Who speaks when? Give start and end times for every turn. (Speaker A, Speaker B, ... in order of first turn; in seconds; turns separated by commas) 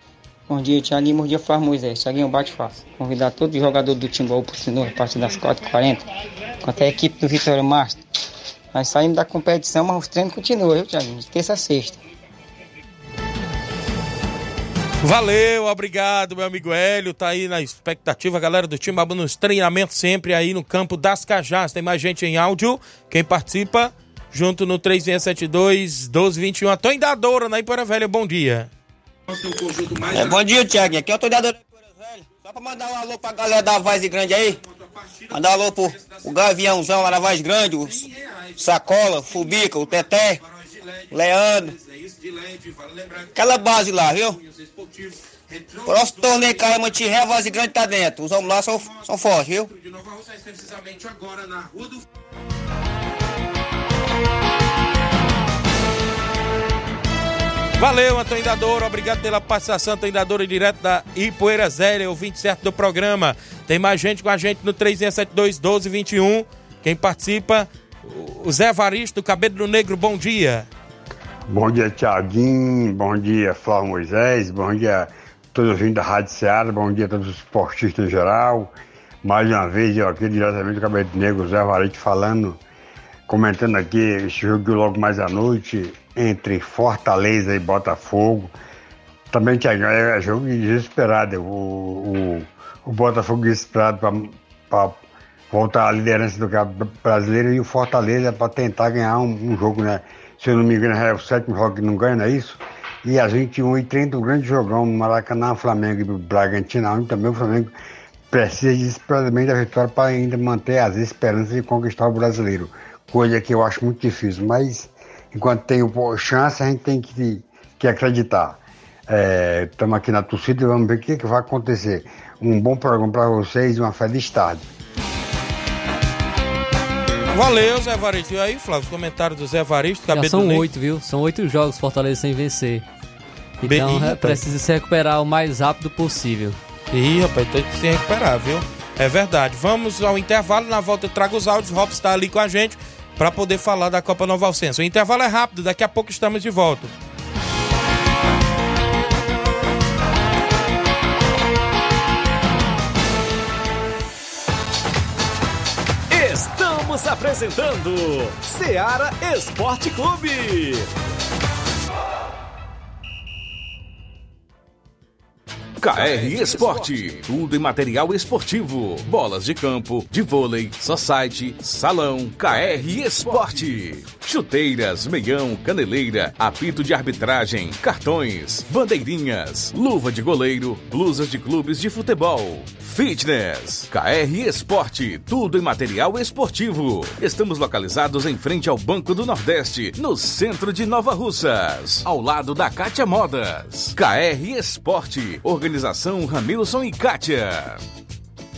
Speaker A: 0.5-6.0, Speaker A: 6.6-8.0, Speaker A: 8.7-12.0, Speaker B: 15.0-28.7, Speaker C: 30.1-34.6, Speaker B: 35.0-35.3, Speaker C: 35.3-38.0, Speaker B: 36.0-36.3, Speaker B: 37.9-38.4, Speaker C: 38.6-40.4, Speaker B: 40.4-41.1, Speaker C: 41.1-41.7, Speaker B: 41.7-43.3, Speaker C: 43.4-44.4, Speaker B: 44.4-46.0, Speaker C: 45.9-49.7, Speaker B: 49.7-52.0, Speaker B: 57.8-70.7, Speaker D: 71.5-78.7, Speaker D: 79.2-82.6, Speaker D: 83.3-88.5, Speaker D: 89.3-95.0, Speaker D: 95.5-107.7, Speaker D: 108.3-124.6, Speaker B: 127.3-130.6, Speaker E: 130.1-132.8, Speaker E: 133.6-136.6, Speaker B: 133.6-134.4, Speaker B: 136.9-146.9, Speaker F: 156.1-160.9, Speaker G: 165.8-197.8, Speaker F: 166.0-166.9